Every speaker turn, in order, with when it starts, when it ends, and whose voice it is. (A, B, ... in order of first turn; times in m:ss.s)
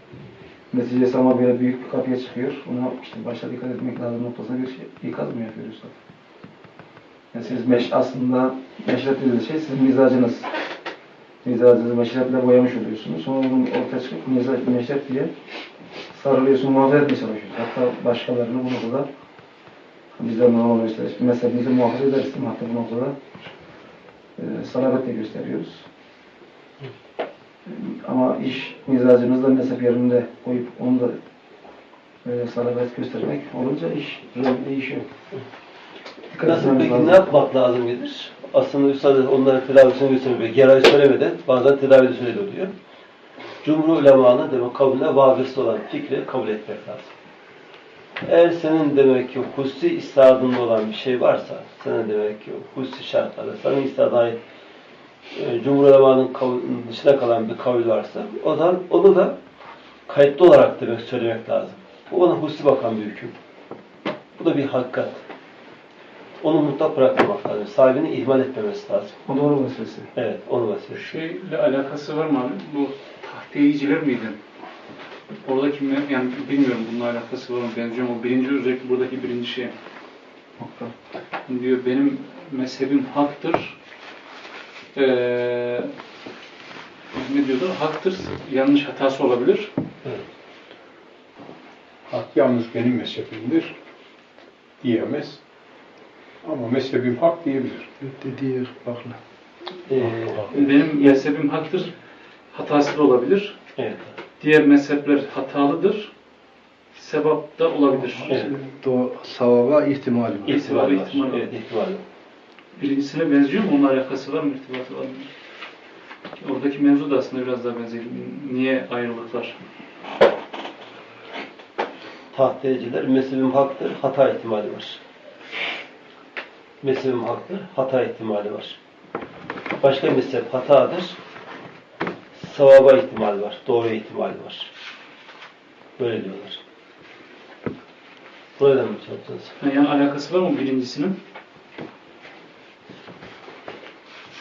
0:00.7-0:06.0 A
0:07.3-0:10.5 A
0:11.4-0:15.3 A
0:16.1-0:19.1 A
0:20.1-0:23.2 A
0:24.4-0:25.8 A
0:27.6-0:31.2 A
0:32.2-0:35.1 A
0:36.3-0:37.2 A
0:36.4-0:42.7 B
0:43.6-0:47.1 B
0:48.2-0:54.4 B
0:55.3-0:59.4 B
1:00.1-1:03.3 B
1:04.4-1:05.2 B
1:06.4-1:09.2 B
1:09.3-1:10.1 A
1:10.1-1:11.1 B
1:11.0-1:14.4 C
1:15.4-1:19.7 C
1:20.6-1:20.9 A
1:21.5-1:23.8 C
1:24.9-1:25.9 C
1:27.1-1:29.7 C
1:32.1-1:33.7 D
1:34.8-1:35.4 D
1:36.4-1:37.9 D
1:38.0-1:39.2 E
1:39.9-1:41.1 B
1:40.5-1:41.9 C
1:42.5-1:43.6 C
1:43.8-1:44.1 B
1:44.4-1:46.1 C
1:46.9-1:48.5 C
1:47.9-1:50.7 E
1:50.4-1:52.0 B
1:50.4-1:51.5 C
1:52.8-1:55.3 C
1:56.4-1:59.6 C
2:02.3-2:05.0 B
2:06.8-2:08.8 B
2:09.8-2:11.2 B
2:12.3-2:14.7 B
2:16.0-2:16.6 B
2:18.6-2:19.5 B
2:19.6-2:21.2 C